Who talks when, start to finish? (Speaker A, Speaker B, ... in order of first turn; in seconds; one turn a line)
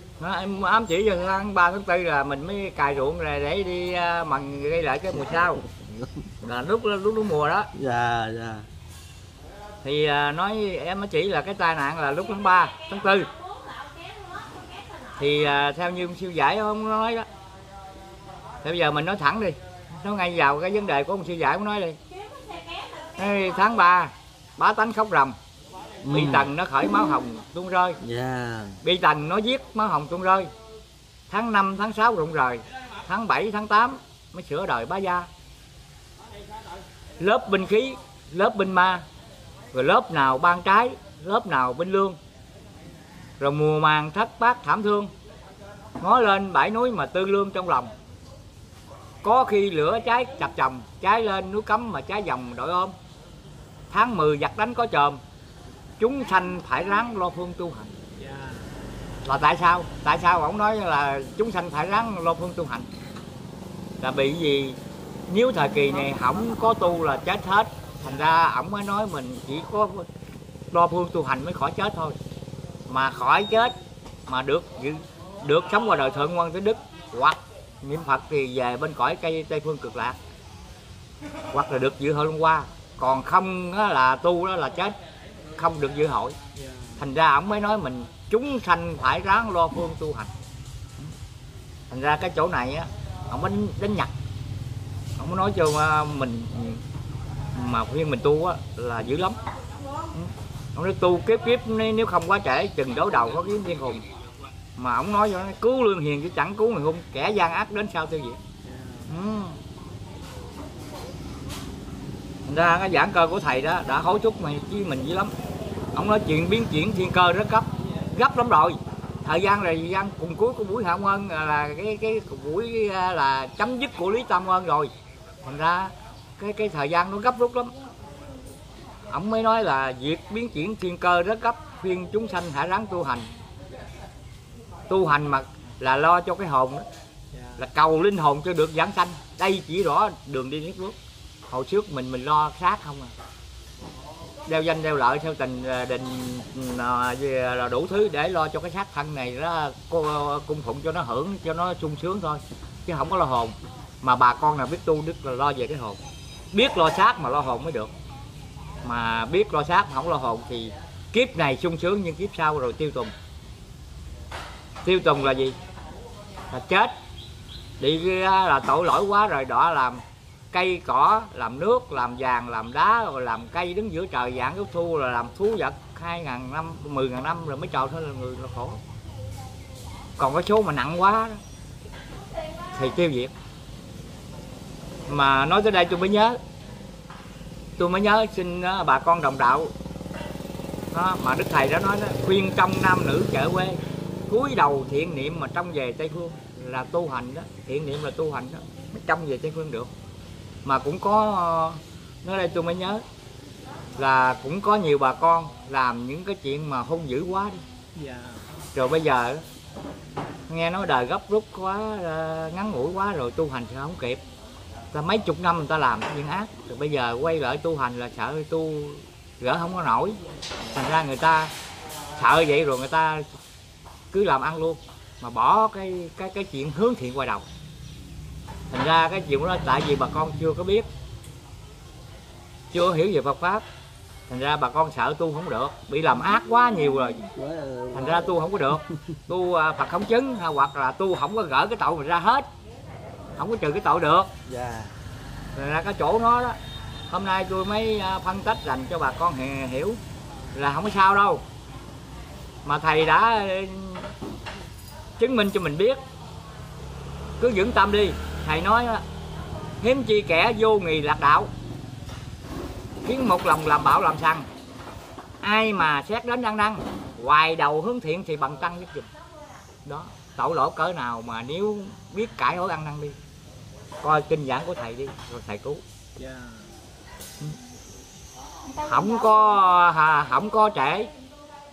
Speaker A: 0.2-5.6
Speaker B: 5.6-6.1
Speaker A: 6.4-7.7
Speaker B: 7.7-8.7
Speaker A: 9.8-13.3
Speaker A: 15.2-17.3
Speaker A: 18.6-22.0
Speaker A: 23.2-25.4
Speaker B: 26.0-26.5
Speaker A: 26.1-28.0
Speaker B: 28.0-28.8
Speaker A: 28.8-30.5
Speaker A: 31.3-35.3
Speaker A: 37.2-39.0
Speaker A: 39.7-42.2
Speaker A: 43.4-45.1
Speaker A: 46.0-47.9
Speaker A: 49.2-53.0
Speaker A: 53.9-55.2
Speaker A: 56.0-57.9
Speaker C: 58.2-58.7
Speaker A: 59.2-62.9
Speaker A: 64.0-64.8
Speaker A: 65.3-70.1
Speaker A: 70.7-72.2
Speaker A: 72.9-73.7
Speaker A: 74.3-80.2
Speaker A: 81.5-85.0
Speaker A: 85.6-86.3
Speaker C: 86.5-87.0
Speaker A: 87.0-90.3
Speaker A: 91.9-94.1
Speaker A: 95.2-96.8
Speaker A: 97.5-99.4
Speaker A: 100.1-104.0
Speaker A: 104.8-108.4
Speaker C: 108.6-109.1
Speaker A: 109.1-109.6
Speaker A: 112.5-115.3
Speaker A: 115.9-124.9
Speaker A: 125.4-127.7
Speaker A: 129.1-133.3
Speaker A: 134.9-136.8
Speaker C: 137.3-137.6
Speaker A: 137.6-140.9
Speaker A: 141.5-143.1
Speaker A: 144.5-156.0
Speaker A: 156.5-157.9
Speaker A: 158.8-163.1
Speaker A: 164.8-165.6
Speaker A: 166.5-166.9
Speaker A: 167.8-178.8
Speaker A: 180.2-181.4
Speaker A: 182.7-183.3
Speaker A: 185.1-186.4
Speaker A: 187.8-189.7
Speaker A: 190.9-199.9
Speaker A: 200.6-203.0
Speaker A: 204.0-207.6
Speaker C: 207.9-208.5
Speaker A: 208.7-209.4
Speaker A: 210.5-214.2
Speaker A: 214.9-220.2
Speaker A: 220.7-221.5
Speaker A: 222.2-223.3
Speaker A: 224.1-227.4
Speaker A: 228.7-230.9
Speaker A: 232.7-233.6
Speaker A: 234.3-237.2
Speaker B: 237.3-238.3
Speaker A: 237.9-242.5
Speaker A: 243.4-244.3
Speaker B: 244.4-244.9
Speaker A: 245.5-246.6
Speaker A: 247.1-250.0
Speaker A: 250.5-251.4
Speaker A: 252.6-254.1
Speaker A: 255.2-256.0
Speaker A: 257.4-259.0
Speaker A: 259.8-261.5
Speaker A: 263.0-264.5
Speaker A: 265.4-269.1
Speaker A: 269.8-273.2
Speaker A: 274.0-275.8
Speaker C: 276.1-276.7
Speaker A: 278.8-281.1